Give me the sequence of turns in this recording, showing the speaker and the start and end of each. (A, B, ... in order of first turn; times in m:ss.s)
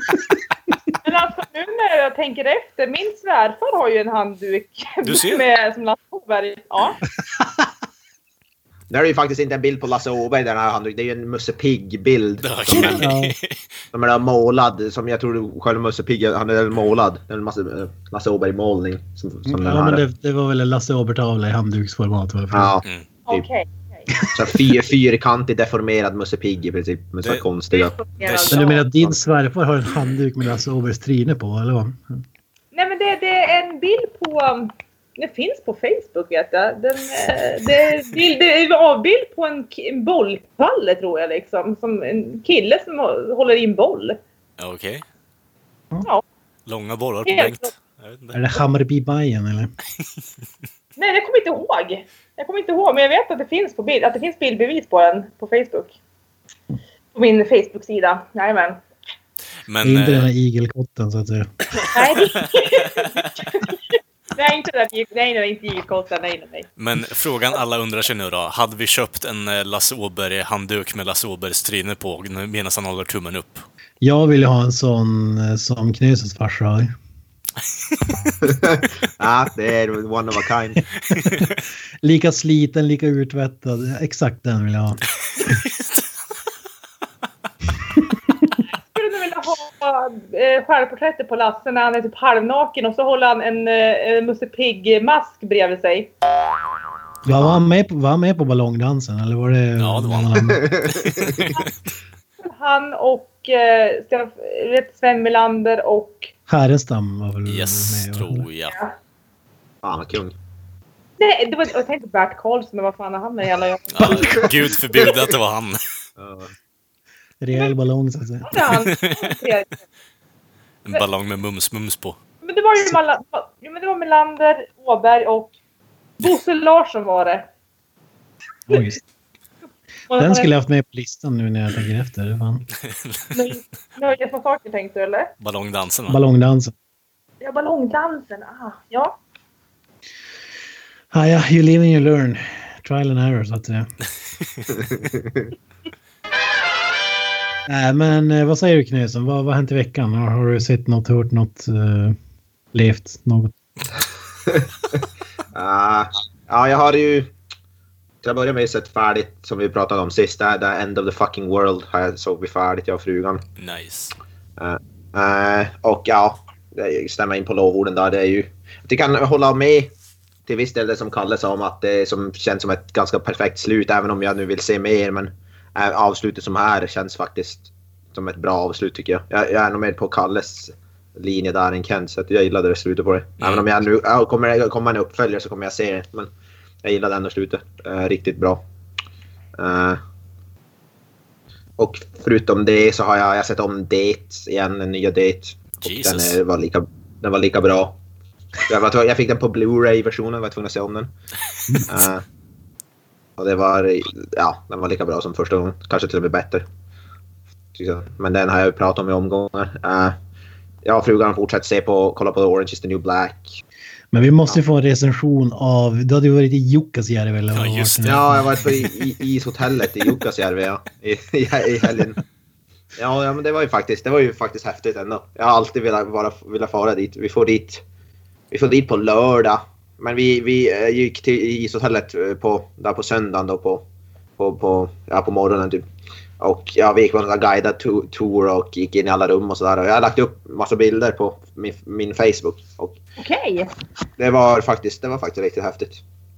0:01.0-0:07.0 A
0:05.0-0:05.4 B
0:08.9-0:13.1 C
0:12.4-0:13.6 B
0:12.7-0:13.4 D
0:13.9-0:20.0 C
0:19.4-0:22.8 D
0:22.5-0:23.4 C
0:23.3-0:24.1 A
0:24.3-0:28.0 C
0:27.7-0:28.8 A
0:28.2-0:28.6 B
0:28.5-0:32.2 D
0:32.7-0:44.2 A
0:44.6-0:45.0 B
0:46.7-0:48.4 B
0:47.2-0:47.7 A
0:48.3-0:49.7 D
0:51.0-0:56.0 A
0:57.1-0:58.8 A
0:59.7-1:00.3 B
0:59.8-1:01.5 D
1:01.9-1:06.7 A
1:06.8-1:13.6 B
1:14.0-1:16.9 D
1:18.0-1:18.3 B
1:18.4-1:20.8 C
1:21.1-1:21.5 D
1:22.0-1:25.0 D
1:28.7-1:36.1 A
1:37.2-1:40.7 D
1:37.3-1:37.6 C
1:39.8-1:41.6 B
1:40.4-1:41.5 C
1:42.4-1:46.3 A
1:46.5-1:48.4 D
1:47.5-1:48.7 B
1:48.6-1:49.0 A
1:49.8-1:50.3 C
1:51.2-1:54.5 A
1:54.0-1:55.8 B
1:56.2-1:56.5 C
1:57.4-1:58.7 D
1:58.5-1:59.8 A
1:58.7-1:59.1 B
2:00.8-2:02.2 B
2:02.4-2:05.5 A
2:06.2-2:07.5 A
2:08.7-2:09.0 D
2:10.1-2:10.5 A
2:10.2-2:12.6 D
2:13.0-2:13.3 B
2:13.3-2:15.3 A
2:15.4-2:16.2 B
2:16.1-2:16.7 D
2:17.4-2:19.2 A
2:21.1-2:23.9 D
2:24.7-2:25.5 C
2:27.7-2:32.2 D
2:32.7-2:33.5 D
2:34.4-2:35.0 C
2:35.5-2:37.3 C
2:38.2-2:43.4 C
2:43.6-2:44.1 B
2:44.6-2:49.9 C
2:50.5-3:06.3 C
3:03.4-3:03.7 B
3:06.8-3:08.6 C
3:09.6-3:10.0 C
3:11.8-3:18.0 C
3:15.8-3:16.4 B
3:18.7-3:21.1 C
3:21.8-3:22.2 C
3:23.4-3:26.7 C
3:27.7-3:30.2 C
3:30.8-3:33.6 C
3:34.1-3:38.7 D
3:37.5-3:38.2 B
3:38.0-3:42.2 C
3:43.0-3:47.8 C
3:48.5-3:53.8 C
3:54.4-3:55.8 C
3:56.4-4:03.0 C
4:03.2-4:03.7 A
4:04.2-4:06.0 C